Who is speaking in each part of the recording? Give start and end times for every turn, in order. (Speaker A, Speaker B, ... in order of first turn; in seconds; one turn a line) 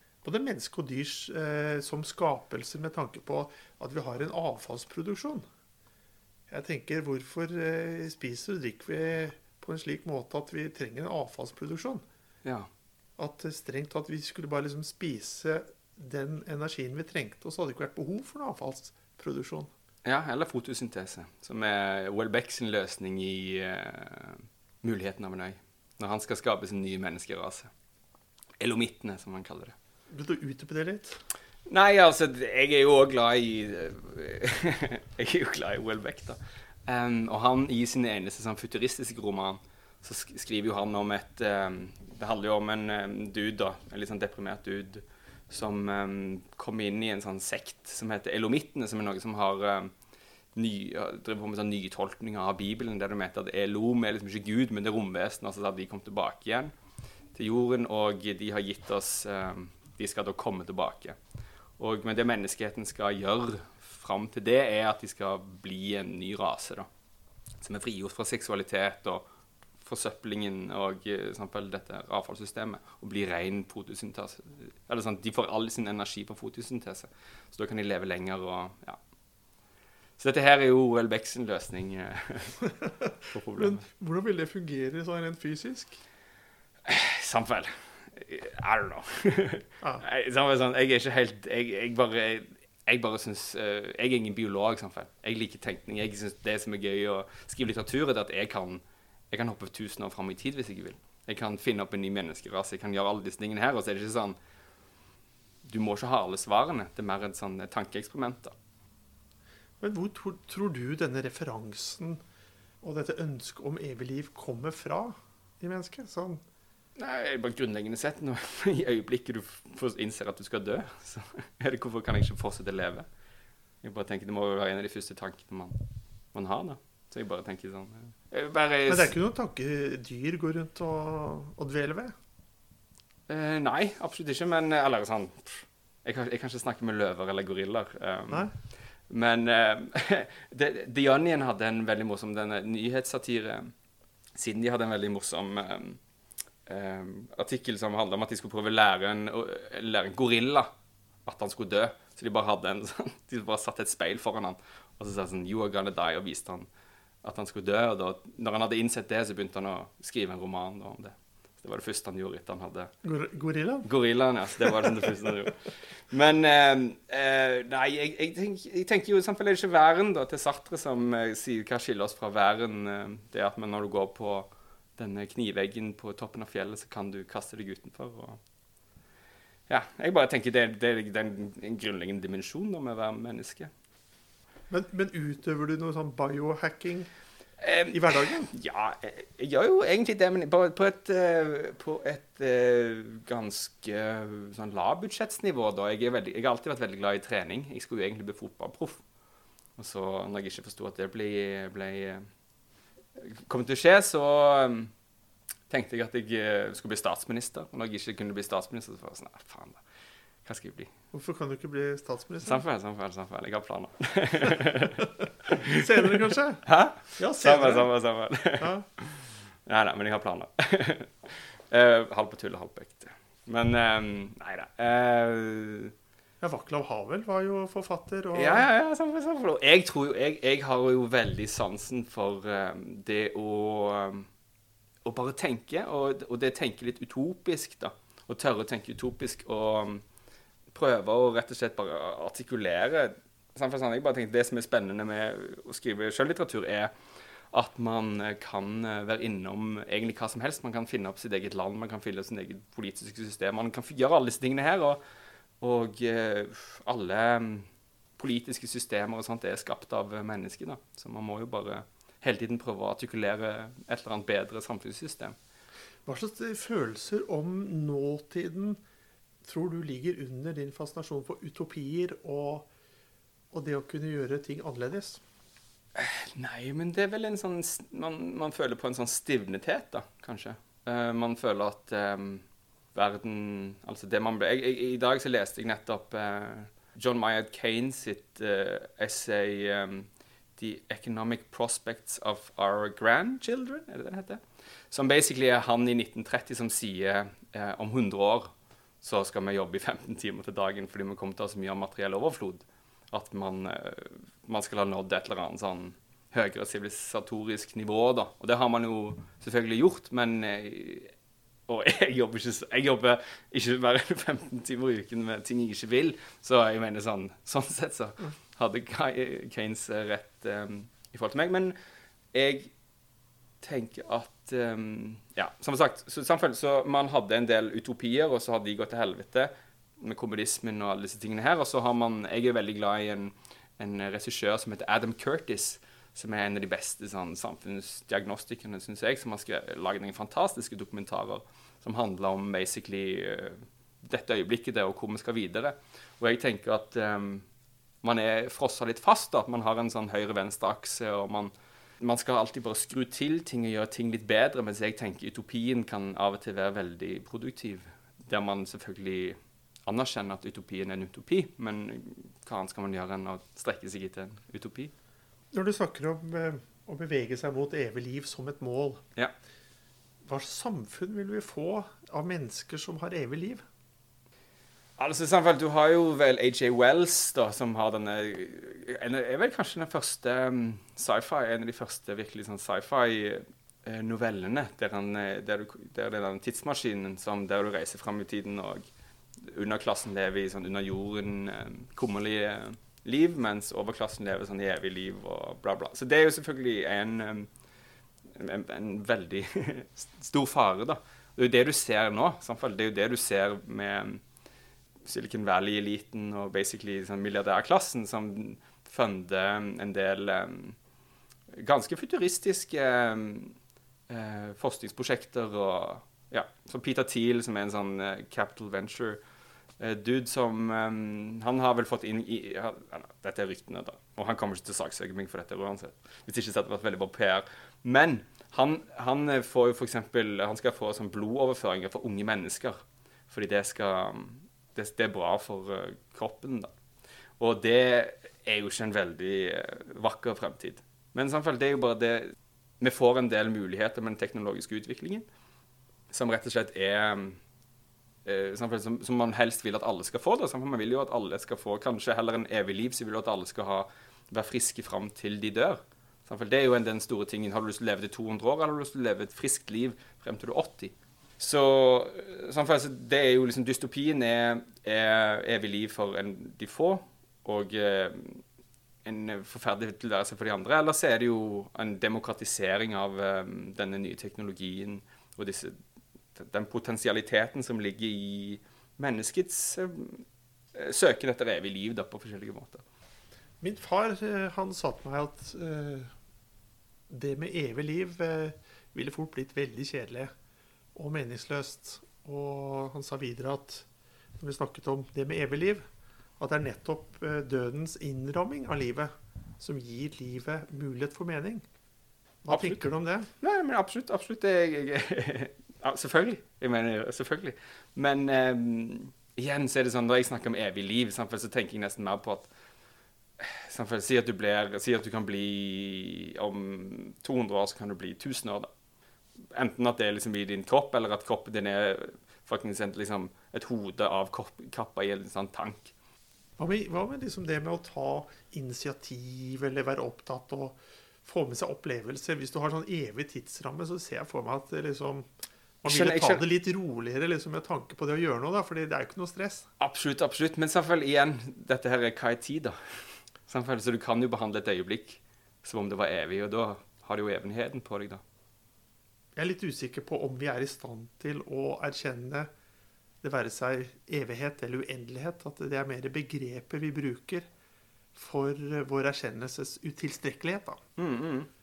Speaker A: 0.2-5.5
Speaker A: 6.5-12.0
Speaker A: 13.2-19.7
Speaker B: 20.1-27.7
Speaker B: 28.6-29.8
Speaker A: 30.1-31.2
Speaker B: 31.7-49.9
Speaker B: 50.5-56.7
Speaker B: 57.4-61.2
Speaker B: 61.8-66.9
Speaker B: 67.6-69.2
Speaker B: 69.8-79.0
Speaker B: 80.2-82.7
Speaker A: 83.0-86.0
Speaker B: 83.3-83.8
Speaker B: 86.9-104.4
Speaker B: 105.7-108.5
Speaker A: 109.8-112.2
Speaker A: 112.8-116.4
Speaker B: 117.0-123.1
Speaker B: 123.8-125.8
Speaker B: 126.3-129.1
Speaker A: 128.9-132.2
Speaker B: 133.3-143.7
Speaker B: 144.4-146.0
Speaker B: 146.7-150.7
Speaker B: 151.2-156.7
Speaker B: 157.2-162.9
Speaker A: 163.0-163.9
Speaker B: 163.8-178.4
Speaker A: 164.6-165.3
Speaker B: 179.7-183.7
Speaker A: 184.7-187.1
Speaker B: 187.6-199.0
Speaker A: 187.9-188.5
Speaker B: 199.8-202.3
Speaker B: 203.2-204.9
Speaker B: 205.7-209.8
Speaker B: 210.4-210.9
Speaker A: 211.1-212.6
Speaker B: 212.4-225.9
Speaker A: 215.6-216.6
Speaker A: 217.2-217.9
Speaker A: 218.6-218.9
Speaker A: 226.4-228.7
Speaker B: 228.3-234.3
Speaker B: 235.1-240.0
Speaker B: 240.7-246.9
Speaker B: 247.5-255.0
Speaker B: 255.6-265.4
Speaker A: 266.1-268.8
Speaker A: 269.4-272.7
Speaker A: 273.5-275.2
Speaker B: 275.9-298.5
Speaker B: 299.0-311.1
Speaker B: 311.7-321.8
Speaker B: 322.3-322.7
Speaker B: 323.6-347.4
Speaker B: 348.0-364.9
Speaker A: 365.5-369.0
Speaker A: 370.2-373.6
Speaker B: 375.0-388.9
Speaker B: 389.4-397.5
Speaker B: 398.3-404.2
Speaker B: 405.1-410.8
Speaker B: 411.5-413.6
Speaker B: 414.1-419.2
Speaker B: 419.8-432.8
Speaker B: 433.3-436.7
Speaker B: 437.4-445.3
Speaker B: 446.1-447.4
Speaker B: 448.2-468.4
Speaker B: 469.1-475.8
Speaker B: 476.4-482.8
Speaker A: 483.6-486.1
Speaker A: 487.1-490.3
Speaker A: 490.9-493.9
Speaker A: 494.4-495.9
Speaker A: 496.4-501.6
Speaker A: 502.4-503.3
Speaker B: 502.5-502.9
Speaker B: 503.4-512.5
Speaker B: 513.4-518.7
Speaker B: 519.5-525.9
Speaker A: 526.6-535.3
Speaker A: 535.8-539.7
Speaker B: 535.9-536.4
Speaker B: 539.8-542.8
Speaker B: 543.5-548.2
Speaker A: 549.4-552.5
Speaker A: 553.2-557.5
Speaker A: 558.1-560.8
Speaker B: 561.0-561.5